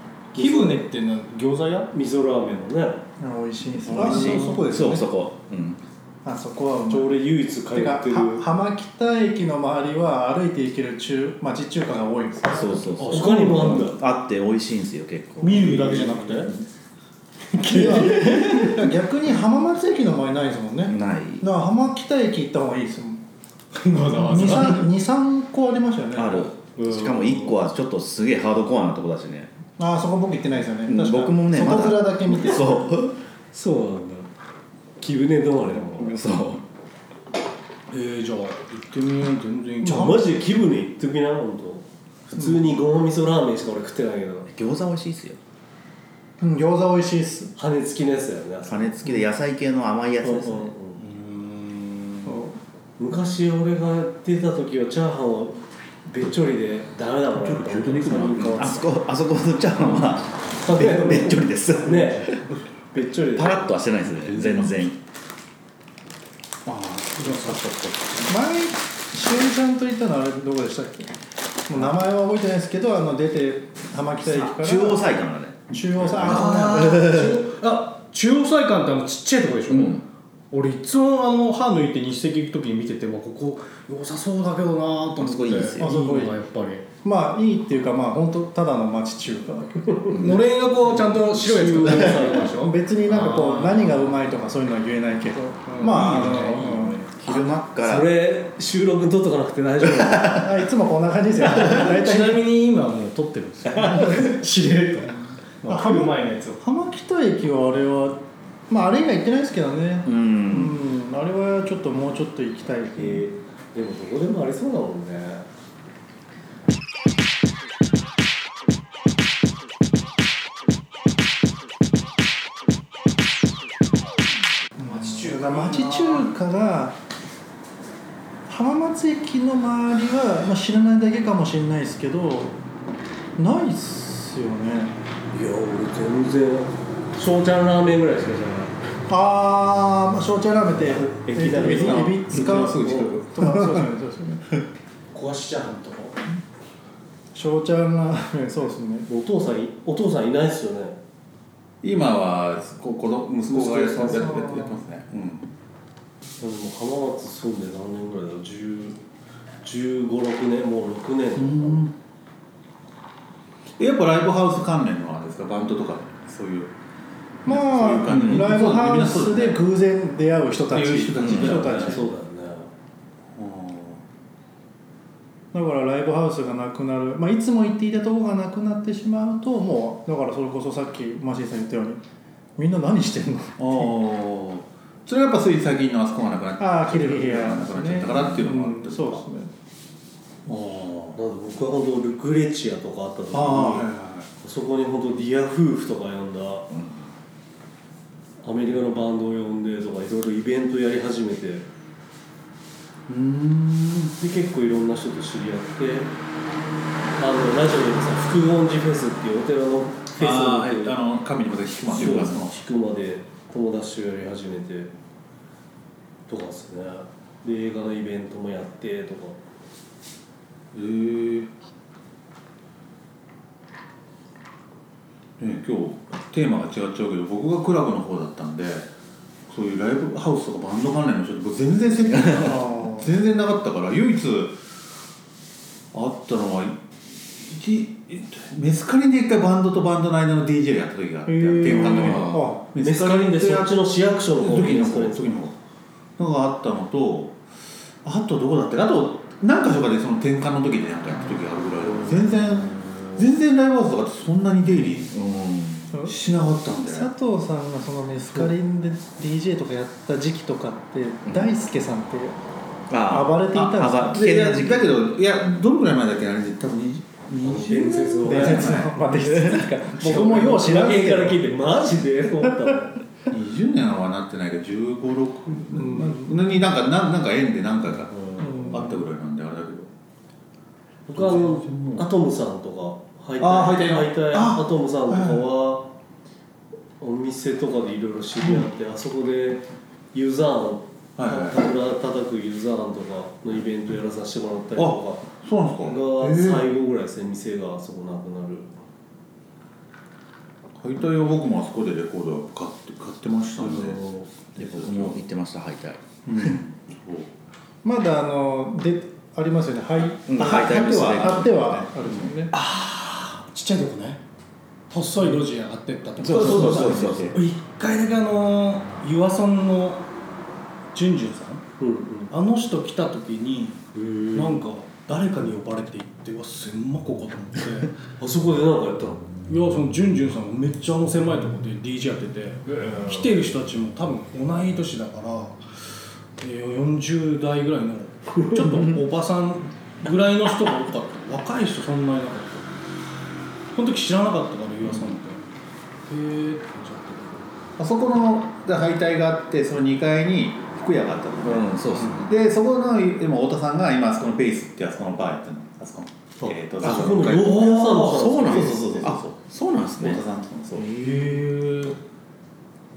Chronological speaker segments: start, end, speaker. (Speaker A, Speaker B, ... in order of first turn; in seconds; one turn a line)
Speaker A: 0.3-1.9
Speaker B: 0.3-0.8
Speaker B: 1.9-3.0
Speaker C: 3.2-4.6
Speaker D: 3.8-5.8
Speaker A: 3.9-5.0
Speaker C: 6.2-7.2
Speaker B: 6.9-8.4
Speaker C: 7.7-13.1
Speaker D: 12.5-16.4
Speaker A: 13.0-13.8
Speaker B: 13.0-14.0
Speaker A: 15.4-16.5
Speaker B: 15.5-16.3
Speaker A: 17.5-18.8
Speaker C: 17.6-23.2
Speaker D: 20.9-21.5
Speaker A: 23.7-24.9
Speaker C: 24.0-26.5
Speaker D: 26.1-29.5
Speaker B: 26.8-27.6
Speaker C: 29.8-32.9
Speaker D: 30.8-33.2
Speaker B: 33.5-34.3
Speaker B: 35.0-36.2
Speaker D: 35.7-36.6
Speaker A: 37.9-40.3
Speaker B: 39.8-44.5
Speaker D: 44.5-45.4
Speaker C: 46.4-47.5
Speaker B: 47.6-48.9
Speaker D: 48.6-50.7
Speaker B: 50.2-51.0
Speaker A: 51.0-52.4
Speaker C: 52.2-52.6
Speaker B: 53.0-58.9
Speaker E: 57.4-58.5
Speaker D: 58.2-62.4
Speaker B: 60.0-63.8
Speaker D: 63.3-65.0
Speaker E: 64.2-64.9
Speaker E: 66.7-67.7
Speaker A: 67.2-68.3
Speaker C: 68.2-71.1
Speaker C: 71.7-77.2
Speaker D: 74.2-77.4
Speaker A: 76.2-86.8
Speaker D: 79.7-80.0
Speaker D: 85.2-85.9
Speaker C: 85.8-86.4
Speaker C: 87.0-90.2
Speaker D: 90.1-90.4
Speaker A: 90.1-94.2
Speaker B: 91.4-92.5
Speaker C: 91.8-97.0
Speaker A: 95.7-97.1
Speaker D: 96.0-96.5
Speaker D: 97.0-98.1
Speaker B: 97.3-100.5
Speaker C: 100.2-102.4
Speaker A: 101.4-106.6
Speaker C: 103.8-104.3
Speaker C: 105.7-113.3
Speaker D: 110.0-110.8
Speaker B: 113.0-115.5
Speaker C: 124.8-127.0
Speaker D: 124.9-126.2
Speaker C: 128.5-132.6
Speaker C: 133.4-134.9
Speaker B: 135.3-138.7
Speaker C: 139.1-144.4
Speaker B: 140.8-143.1
Speaker E: 141.7-143.7
Speaker A: 145.1-146.2
Speaker C: 147.3-149.1
Speaker B: 149.1-151.0
Speaker E: 151.8-155.5
Speaker C: 153.9-154.8
Speaker B: 153.9-154.4
Speaker B: 156.4-159.0
Speaker B: 159.6-161.8
Speaker E: 161.3-161.9
Speaker E: 163.8-166.7
Speaker C: 167.4-172.1
Speaker E: 167.4-169.6
Speaker E: 170.7-172.0
Speaker D: 171.2-171.6
Speaker B: 171.6-172.7
Speaker E: 173.3-174.0
Speaker C: 175.5-182.0
Speaker C: 182.6-183.9
Speaker E: 183.6-189.2
Speaker C: 186.6-189.5
Speaker E: 190.4-191.2
Speaker B: 191.2-193.9
Speaker E: 193.3-194.3
Speaker B: 194.4-196.7
Speaker B: 198.4-201.7
Speaker E: 203.1-204.1
Speaker B: 204.2-206.1
Speaker B: 207.2-211.0
Speaker E: 210.1-212.6
Speaker B: 211.8-214.9
Speaker B: 216.3-219.4
Speaker E: 220.7-221.5
Speaker E: 225.4-228.9
Speaker E: 229.5-234.6
Speaker C: 232.3-233.1
Speaker E: 235.9-245.5
Speaker C: 241.2-242.6
Speaker D: 241.7-242.4
Speaker B: 242.8-245.4
Speaker E: 246.2-247.4
Speaker E: 248.0-255.1
Speaker B: 252.1-253.1
Speaker D: 255.0-256.0
Speaker E: 256.0-257.1
Speaker C: 256.8-262.4
Speaker D: 261.2-261.5
Speaker D: 262.9-264.9
Speaker C: 263.1-264.3
Speaker E: 263.5-268.9
Speaker B: 267.4-268.9
Speaker C: 268.2-271.4
Speaker D: 269.1-269.7
Speaker B: 270.0-273.0
Speaker E: 273.3-279.9
Speaker C: 275.8-276.4
Speaker B: 278.1-278.8
Speaker C: 278.4-279.0
Speaker B: 281.1-285.9
Speaker E: 281.1-282.1
Speaker E: 283.4-285.5
Speaker B: 287.0-298.7
Speaker E: 288.4-288.7
Speaker E: 291.2-291.6
Speaker E: 294.8-296.7
Speaker E: 300.8-305.2
Speaker B: 303.6-304.3
Speaker D: 304.6-306.6
Speaker E: 306.2-307.3
Speaker C: 307.8-312.5
Speaker D: 310.3-311.9
Speaker E: 310.4-312.3
Speaker A: 312.5-314.2
Speaker A: 314.9-320.0
Speaker D: 316.2-317.4
Speaker E: 316.2-317.4
Speaker A: 320.9-321.6
Speaker B: 321.8-322.3
Speaker A: 322.3-327.9
Speaker B: 323.9-324.6
Speaker B: 328.2-329.3
Speaker A: 329.5-335.7
Speaker B: 332.7-333.3
Speaker A: 336.4-342.7
Speaker A: 343.7-345.4
Speaker A: 346.1-347.5
Speaker E: 347.8-359.4
Speaker D: 351.4-352.3
Speaker A: 352.0-352.3
Speaker B: 356.8-359.1
Speaker D: 358.2-360.2
Speaker E: 360.0-361.0
Speaker A: 360.7-362.0